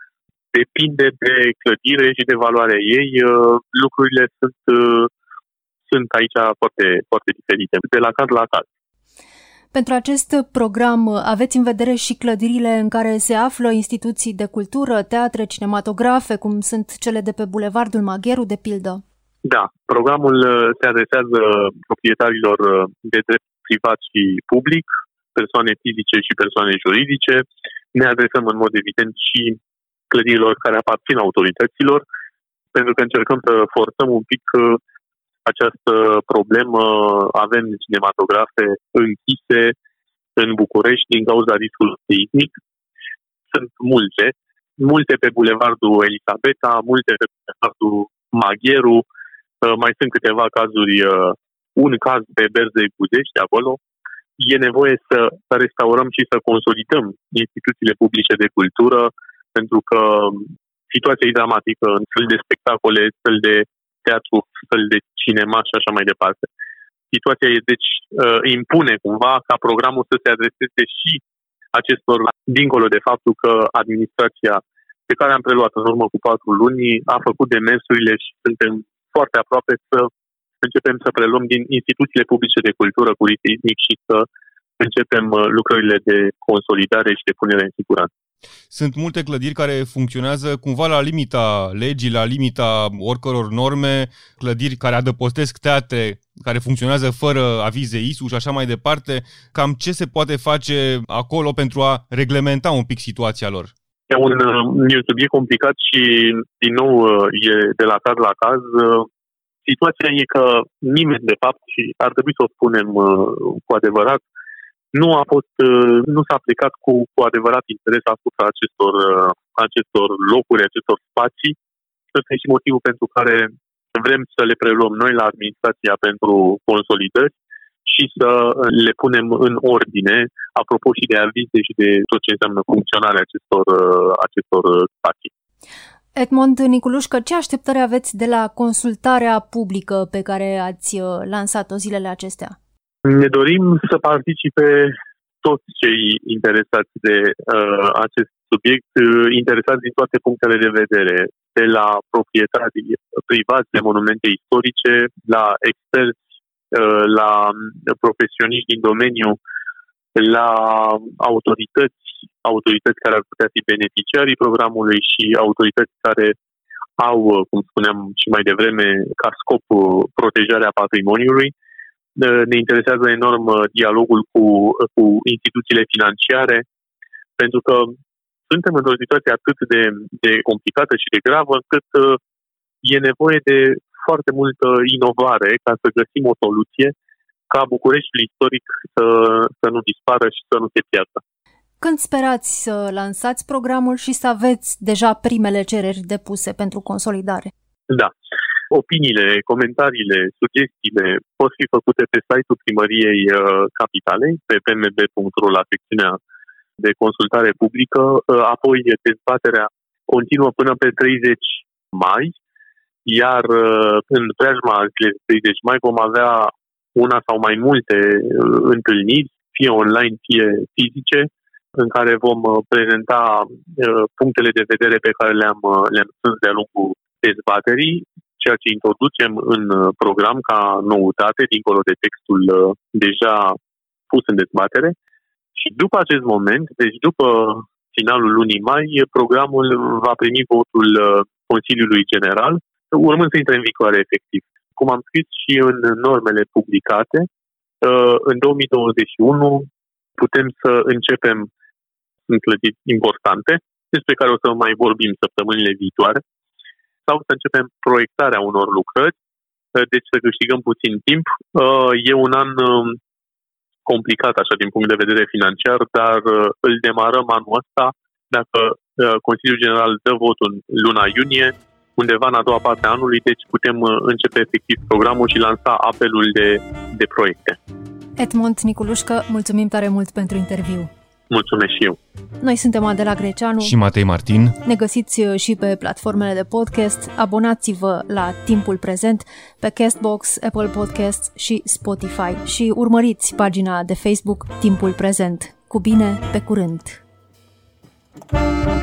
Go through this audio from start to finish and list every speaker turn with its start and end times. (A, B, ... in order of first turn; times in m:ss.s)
0:00.5-0:05.1 A
0:05.8-0:08.6 A
0:09.7-0:19.0 B
0:19.4-0:29.6 A
0:30.1-0:32.0 A
0:32.7-0:34.8 A
0:35.4-0:39.7 A
0:40.4-0:42.5 A
0:43.5-0:49.0 A
0:49.6-0:53.8 A
0:54.4-1:06.5 A
1:07.1-1:11.2 A
1:11.7-1:20.1 A
1:20.6-1:24.3 A
1:24.8-1:28.1 A
1:28.7-1:43.7 C
1:44.1-1:49.1 A
1:49.6-1:54.2 A
1:54.9-2:01.6 A
2:02.1-2:07.3 A
2:07.8-2:15.3 A
2:16.2-2:22.5 B
2:23.0-2:39.4 A
2:40.1-2:46.4 A
2:47.0-2:51.5 A
2:52.2-2:56.6 A
2:57.4-2:58.0 A
2:58.5-3:02.2 A
3:02.8-3:06.9 A
3:07.5-3:11.2 A
3:11.8-3:17.5 B
3:18.7-3:26.2 A
3:26.8-3:32.3 A
3:33.0-3:53.6 A
3:54.1-3:54.9 A
3:55.6-4:07.3 A
4:07.8-4:11.5 A
4:12.3-4:16.2 A
4:17.0-4:19.1 A
4:19.7-4:23.0 A
4:23.8-4:37.6 A
4:38.2-4:40.9 B
4:41.3-4:42.0 A
4:42.4-4:43.7 B
4:43.6-4:44.6 C
4:44.6-4:57.0 B